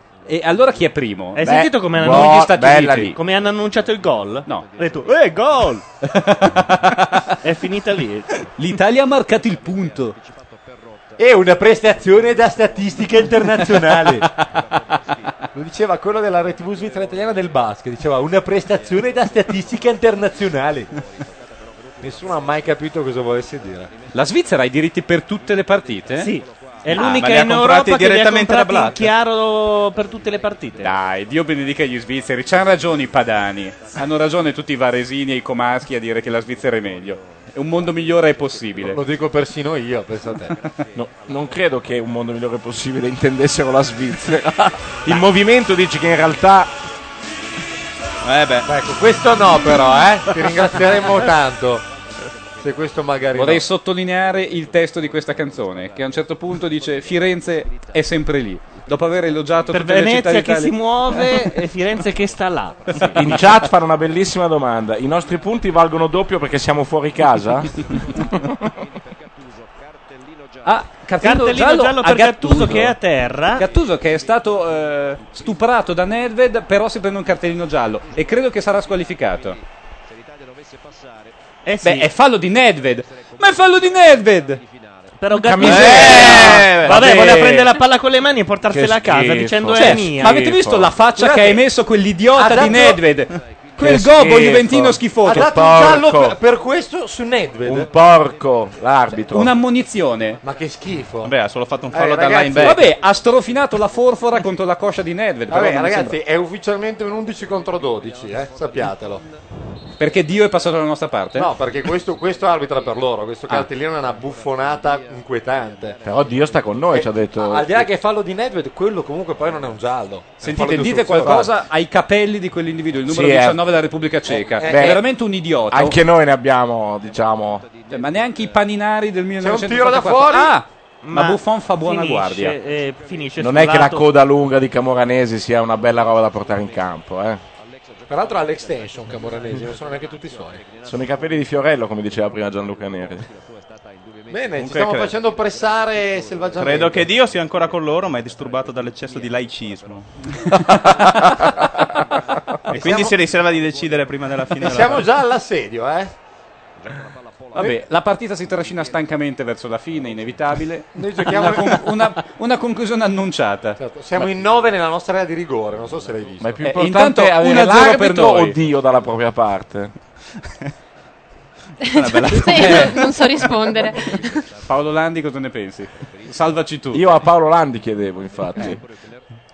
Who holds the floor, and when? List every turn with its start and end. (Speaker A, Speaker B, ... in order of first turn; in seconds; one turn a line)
Speaker A: 0.2-1.4
Speaker B: 1.3-2.4
Speaker C: 1.4-3.2
Speaker A: 2.0-3.1
Speaker B: 3.1-5.8
Speaker A: 6.0-7.3
Speaker B: 7.4-8.3
Speaker A: 8.6-10.2
Speaker D: 11.2-14.3
Speaker D: 15.5-20.9
Speaker D: 22.0-23.9
Speaker A: 24.1-26.3
Speaker B: 26.2-30.9
Speaker E: 26.9-29.1
Speaker A: 26.9-27.2
Speaker A: 30.8-39.0
Speaker D: 38.8-40.5
Speaker C: 40.9-46.7
Speaker E: 48.2-48.7
Speaker D: 48.6-51.9
Speaker D: 52.6-53.6
Speaker A: 53.3-61.4
Speaker B: 59.7-63.1
Speaker A: 63.1-63.4
Speaker C: 63.1-68.7
Speaker A: 70.6-72.9
Speaker B: 71.2-73.6
Speaker A: 73.6-79.6
Speaker B: 81.6-82.1
Speaker A: 81.8-84.6
Speaker B: 85.2-90.4
Speaker C: 85.3-86.9
Speaker E: 85.6-86.9
Speaker A: 86.0-87.7
Speaker C: 88.7-90.9
Speaker A: 89.7-95.5
Speaker D: 91.1-91.6
Speaker D: 92.3-93.1
Speaker C: 93.8-96.4
Speaker D: 95.2-97.9
Speaker C: 97.7-99.5
Speaker A: 99.3-100.4
Speaker D: 100.4-101.3
Speaker E: 101.2-102.8
Speaker D: 101.9-102.8
Speaker A: 102.6-106.2
Speaker D: 105.5-109.2
Speaker A: 110.0-111.5
Speaker D: 111.3-116.0
Speaker C: 116.0-117.8
Speaker D: 116.9-121.5
Speaker A: 120.4-126.0
Speaker C: 120.4-121.4
Speaker C: 123.1-123.6
Speaker D: 124.3-125.0
Speaker C: 124.7-125.0
Speaker C: 125.7-127.7
Speaker A: 127.9-132.6
Speaker D: 129.4-130.6
Speaker B: 131.0-134.1
Speaker C: 133.4-137.4
Speaker D: 138.1-140.6
Speaker C: 140.8-143.3
Speaker D: 144.3-147.1
Speaker E: 144.6-145.1
Speaker E: 146.6-150.1
Speaker A: 150.4-151.1
Speaker E: 152.7-155.1
Speaker D: 152.7-153.2
Speaker D: 154.6-156.1
Speaker A: 157.5-163.8
Speaker D: 160.9-162.1
Speaker D: 163.8-166.6
Speaker C: 166.4-169.9
Speaker A: 166.6-168.6
Speaker F: 171.8-174.4
Speaker E: 171.9-173.1
Speaker A: 172.5-173.0
Speaker A: 174.7-177.0
Speaker C: 176.9-178.8